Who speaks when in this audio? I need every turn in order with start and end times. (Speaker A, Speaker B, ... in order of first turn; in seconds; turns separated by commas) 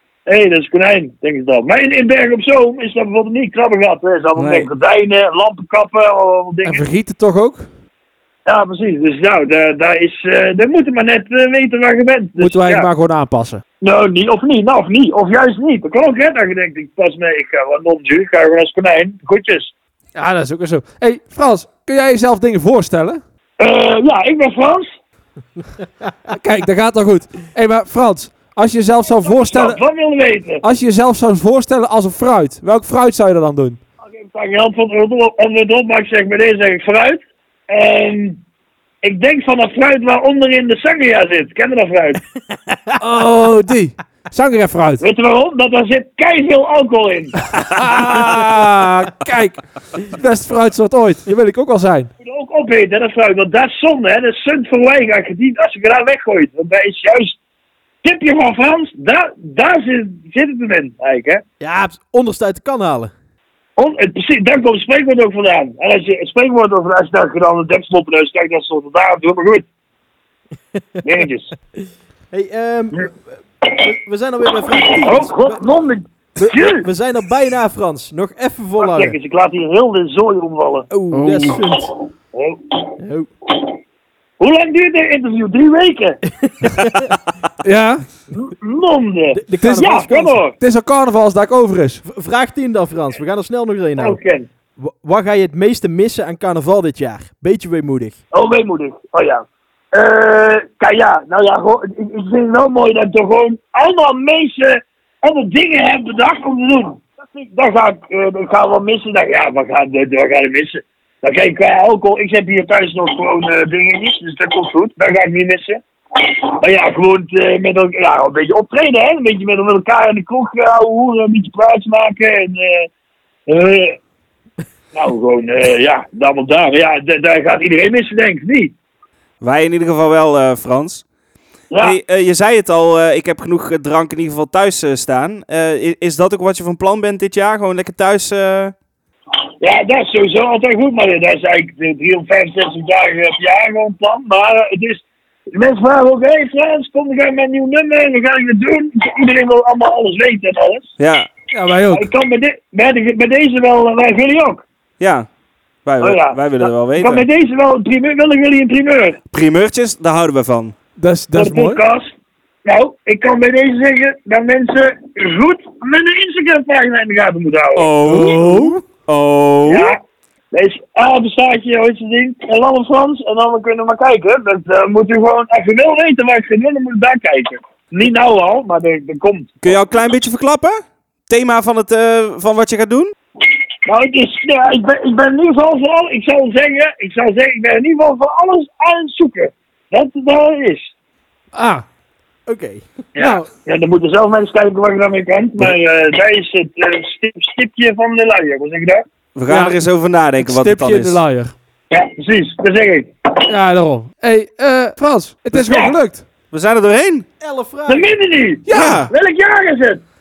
Speaker A: 0.3-6.8, Speaker B: 4.4-4.6, Speaker B: 6.6-7.7, Speaker A: 8.4-12.9, Speaker B: 12.4-13.6, Speaker A: 13.8-19.7, Speaker B: 20.1-23.2, Speaker A: 23.6-24.9, Speaker B: 26.3-29.8, Speaker A: 29.1-30.6, Speaker B: 30.6-33.8, Speaker A: 34.0-38.4, Speaker A: 39.0-42.2, Speaker B: 43.0-45.0, Speaker A: 45.0-47.4, Speaker B: 47.6-52.1, Speaker A: 52.2-57.4, Speaker A: 58.0-61.4, Speaker C: 61.6-63.1, Speaker A: 63.8-69.7, Speaker A: 71.0-71.5, Speaker C: 72.3-73.2, Speaker C: 73.7-75.7, Speaker A: 74.8-76.9, Speaker C: 76.4-79.2, Speaker A: 78.8-80.9, Speaker C: 80.9-81.9, Speaker B: 81.1-81.6, Speaker A: 82.3-82.9, Speaker C: 83.0-83.3, Speaker A: 84.4-86.2, Speaker C: 86.4-87.1, Speaker B: 87.6-88.1, Speaker A: 88.3-90.5, Speaker C: 89.3-90.4, Speaker B: 89.6-89.9, Speaker B: 90.5-92.0, Speaker C: 92.0-94.2, Speaker A: 94.0-94.5, Speaker C: 94.8-98.2, Speaker A: 98.3-122.9, Speaker A: 123.5-124.0, Speaker A: 124.9-128.7, Speaker D: 129.4-131.1, Speaker A: 131.7-132.0, Speaker D: 131.8-138.7, Speaker A: 139.6-150.9, Speaker D: 151.0-151.3, Speaker B: 151.5-152.1, Speaker A: 151.9-154.6, Speaker D: 155.0-155.3, Speaker D: 155.8-157.3, Speaker A: 156.0-159.2, Speaker D: 159.3-160.8, Speaker B: 161.0-161.8, Speaker A: 161.3-162.1, Speaker A: 162.6-167.9, Speaker D: 167.8-169.9, Speaker B: 168.1-168.8, Speaker A: 169.7-170.0, Speaker A: 170.5-179.7, Speaker D: 179.6-183.1, Speaker A: 183.9-190.9, Speaker B: 191.5-191.8, Speaker C: 192.4-192.8, Speaker B: 193.2-193.5, Speaker A: 193.2-199.0, Speaker D: 199.3-201.2, Speaker B: 199.5-199.8, Speaker B: 200.4-201.6, Speaker A: 201.9-203.1, Speaker B: 203.5-206.2, Speaker A: 205.6-205.9, Speaker D: 206.5-207.3, Speaker C: 207.4-208.1, Speaker A: 207.9-210.0, Speaker B: 208.7-209.1, Speaker D: 208.7-209.1